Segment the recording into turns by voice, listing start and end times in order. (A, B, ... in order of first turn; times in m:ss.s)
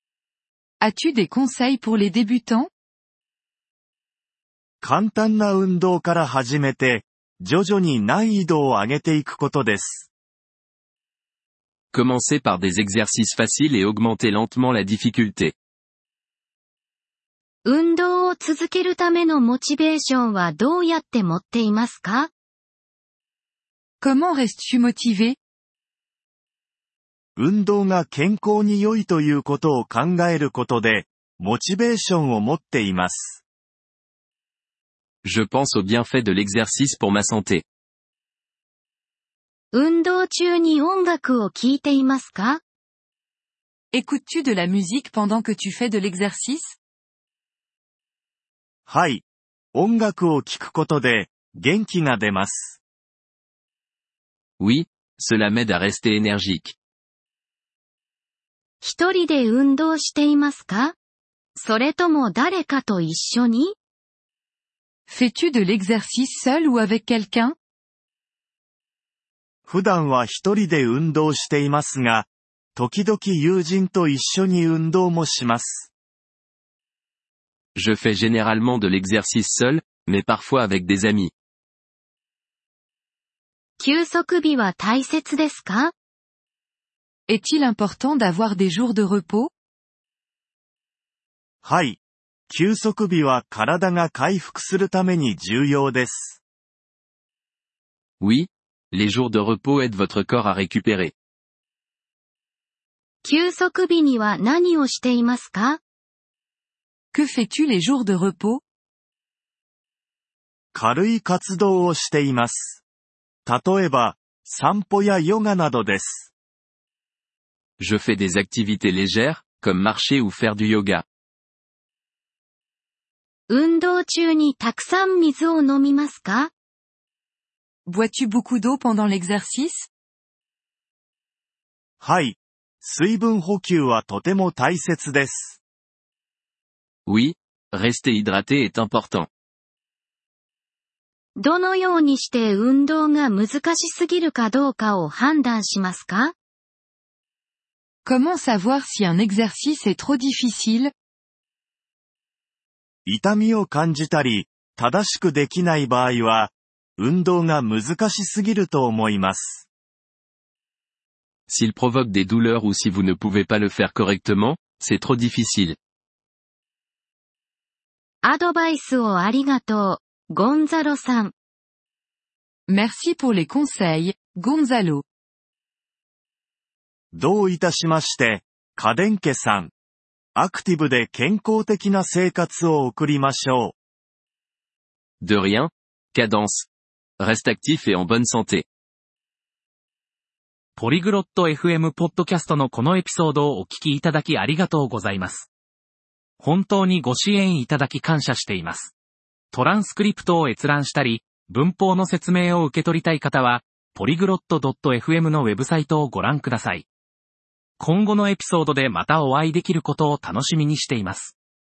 0:00.8-0:02.7 A
0:04.8-0:10.1 B
0:11.9-0:15.5 C
0:17.6-0:22.3 D
0:24.0-0:25.4 A
0:27.4-0:33.4 B
0:35.2-0:37.6 C
0:39.7-0:42.6 D
0:43.9-0:46.8 A
0:48.9-0:52.8 B
0:54.6-0:56.8 C
0:58.8-1:01.0 D
1:01.6-1:03.7 D
1:05.1-1:07.5 A
1:09.6-1:15.9 B
1:17.7-1:21.3 C
1:23.8-1:25.9 D
1:27.3-1:29.5 A
1:31.6-1:32.0 B
1:32.5-1:36.4 B
1:38.2-1:41.1 C
1:43.2-1:45.8 D
1:47.1-1:48.6 A
1:50.7-1:52.8 B
1:53.4-1:56.3 B
1:57.8-2:01.0 C
2:03.5-2:06.5 D
2:07.8-2:09.9 A
2:12.0-2:15.6 B
2:17.0-2:19.3 C
2:21.4-2:26.3 D
2:28.0-2:30.9 A
2:33.0-2:39.7 B
2:41.5-2:45.8 C
2:48.2-2:51.3 D
2:52.7-2:55.0 A
2:57.1-2:59.7 B
3:00.3-3:03.7 B
3:05.2-3:08.7 C
3:10.8-3:15.5 E
3:16.4-3:18.9 E
3:19.5-3:26.8 E
3:27.8-3:31.3 E